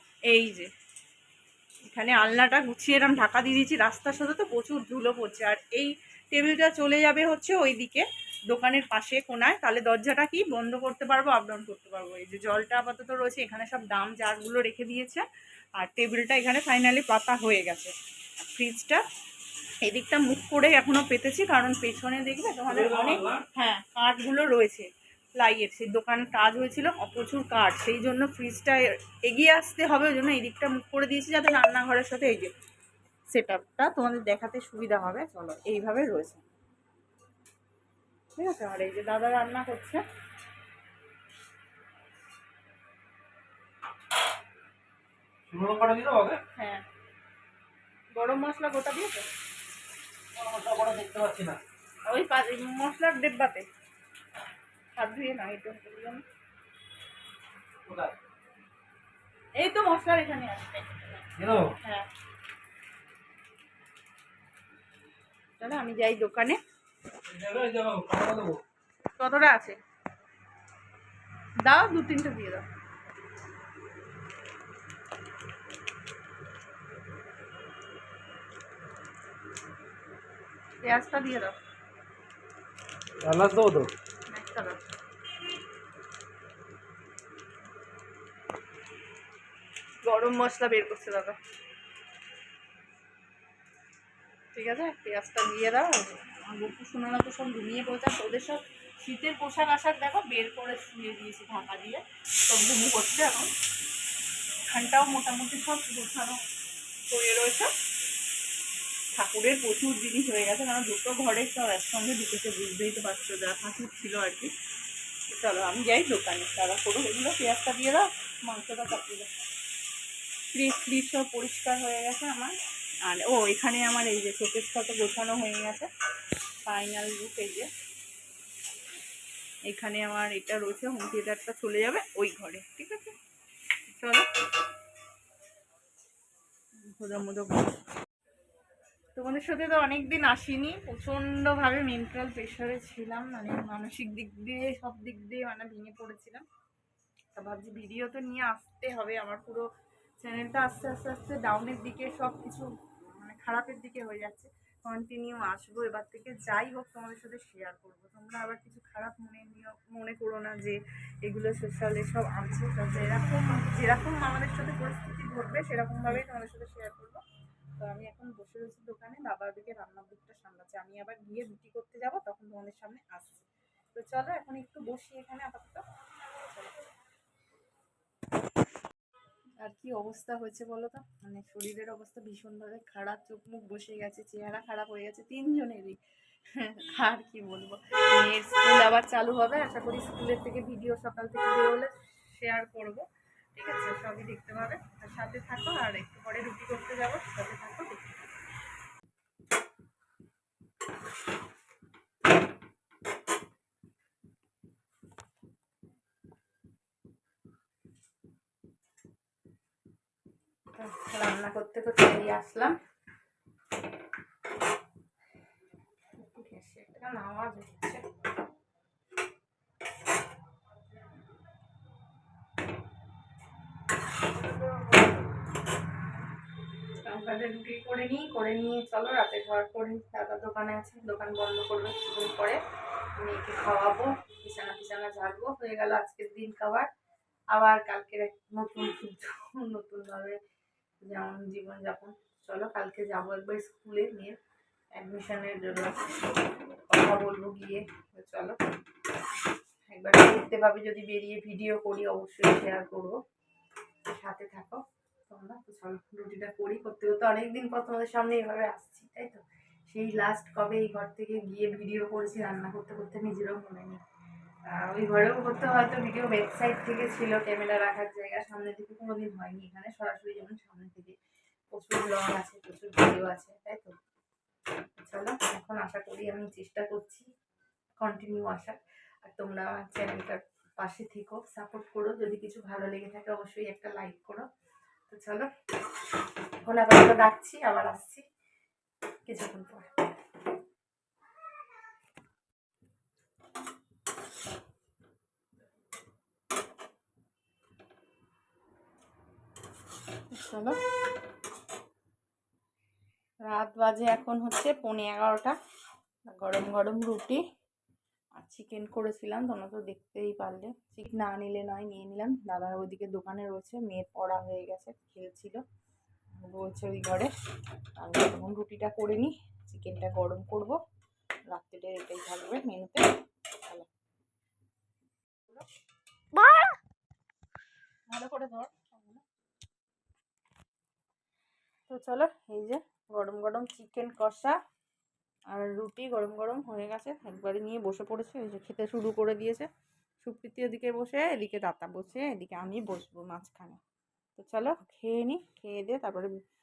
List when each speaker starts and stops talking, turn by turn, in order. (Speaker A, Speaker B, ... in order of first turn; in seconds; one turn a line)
Speaker A: 0.2-0.7
Speaker A: 1.8-15.2
Speaker A: 15.8-19.0
Speaker A: 19.8-32.5
Speaker B: 22.7-23.4
Speaker A: 33.3-36.5
Speaker A: 38.4-40.0
Speaker B: 45.5-46.4
Speaker A: 46.5-46.8
Speaker A: 48.1-49.3
Speaker B: 50.4-51.6
Speaker A: 52.0-53.7
Speaker A: 54.9-56.2
Speaker B: 57.9-58.1
Speaker A: 59.5-61.3
Speaker B: 61.4-61.7
Speaker A: 61.8-62.1
Speaker A: 65.6-66.6
Speaker B: 67.2-68.6
Speaker A: 69.2-69.8
Speaker A: 71.6-72.6
Speaker A: 80.8-81.5
Speaker B: 83.2-83.9
Speaker A: 84.3-84.8
Speaker A: 90.0-91.4
Speaker A: 94.5-103.5
Speaker A: 104.7-106.4
Speaker A: 107.1-107.7
Speaker A: 109.1-114.5
Speaker A: 115.3-119.3
Speaker A: 120.5-125.9
Speaker A: 126.6-127.7
Speaker A: 129.7-133.2
Speaker A: 133.9-134.3
Speaker A: 136.8-137.8
Speaker A: 139.1-146.4
Speaker A: 147.3-149.7
Speaker A: 150.2-167.2
Speaker A: 167.8-175.8
Speaker A: 176.4-176.8
Speaker A: 179.6-186.0
Speaker A: 186.5-198.2
Speaker A: 210.7-212.8
Speaker A: 216.2-218.0
Speaker A: 227.0-232.6
Speaker A: 233.2-236.9
Speaker A: 237.5-240.4
Speaker A: 241.0-244.4
Speaker A: 244.9-248.6
Speaker A: 249.9-253.2
Speaker A: 254.1-264.0
Speaker A: 264.7-271.2
Speaker A: 271.7-274.0
Speaker A: 274.9-277.3
Speaker A: 278.0-284.4
Speaker A: 285.1-285.5
Speaker A: 286.6-288.2
Speaker A: 289.2-290.0
Speaker A: 300.3-300.8
Speaker A: 303.4-305.6
Speaker A: 306.3-307.4
Speaker A: 308.4-315.6
Speaker A: 316.4-317.3
Speaker A: 318.0-320.8
Speaker A: 321.5-323.9
Speaker A: 328.1-329.2
Speaker A: 331.9-334.6
Speaker A: 335.5-339.7
Speaker A: 340.2-343.8
Speaker A: 344.4-346.3